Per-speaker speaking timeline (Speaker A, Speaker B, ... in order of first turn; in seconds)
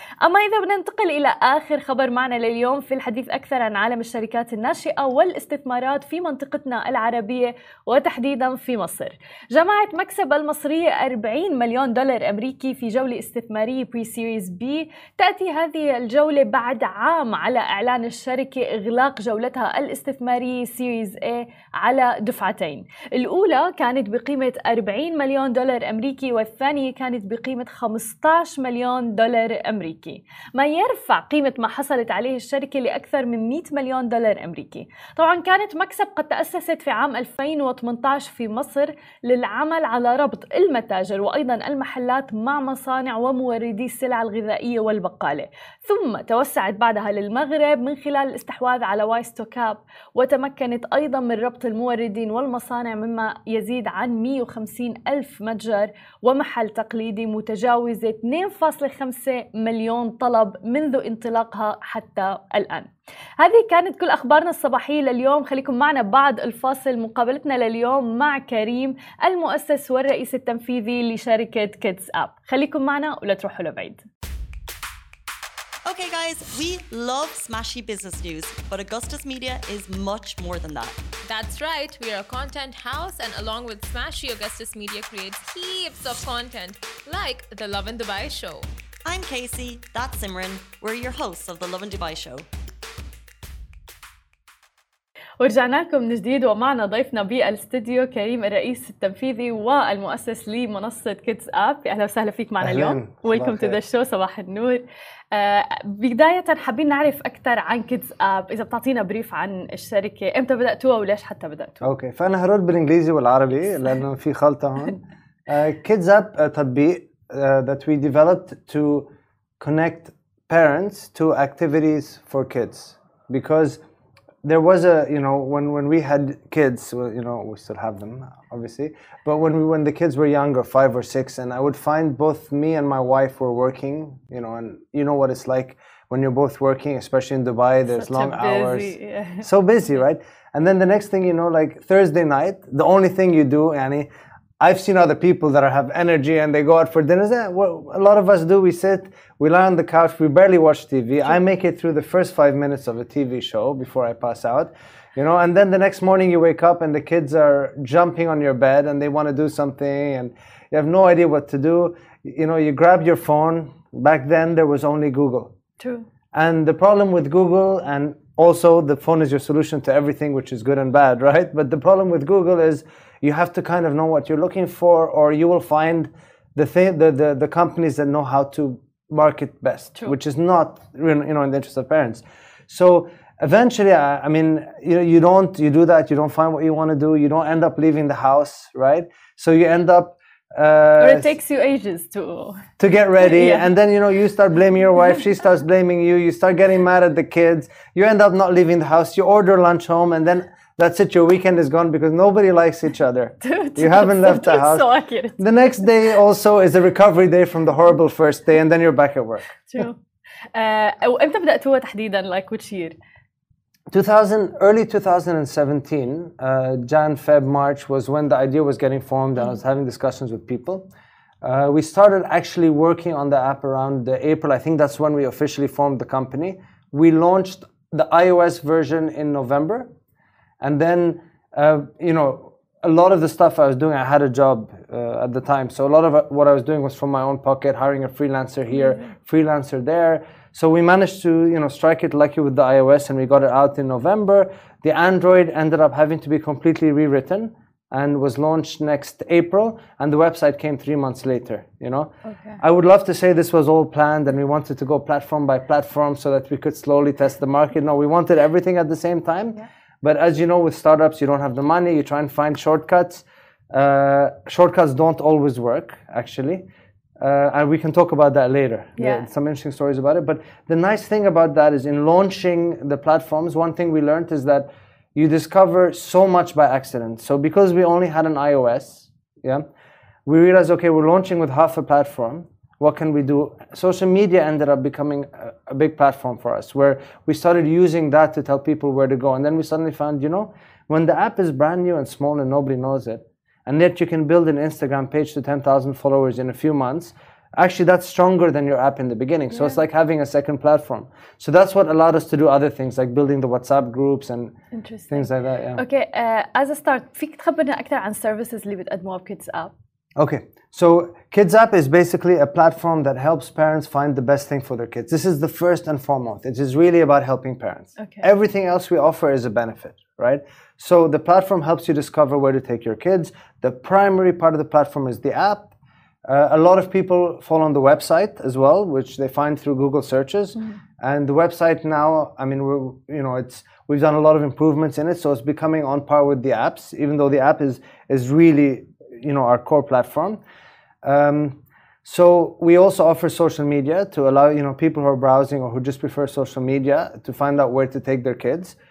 Speaker A: 0.2-74.0, 95.4-111.8, 137.9-139.5, 165.8-166.1, 191.0-192.7, 193.2-193.7, 203.4-205.4, 209.6-210.0, 210.5-212.9, 252.2-252.6, 269.0-269.2, 304.7-309.7, 318.0-318.2
Speaker B: 75.9-81.0, 89.0-92.5
Speaker C: 81.2-88.7
Speaker D: 102.6-103.8, 111.8-119.1, 119.6-123.8, 124.4-144.1, 144.6-165.5, 166.3-191.3, 192.8-204.9, 205.4-209.6, 213.9-220.9, 221.4-229.9, 230.6-266.6, 267.2-279.6, 280.2-304.5, 305.1-305.8, 310.1-325.7, 326.2-340.4, 341.0-348.8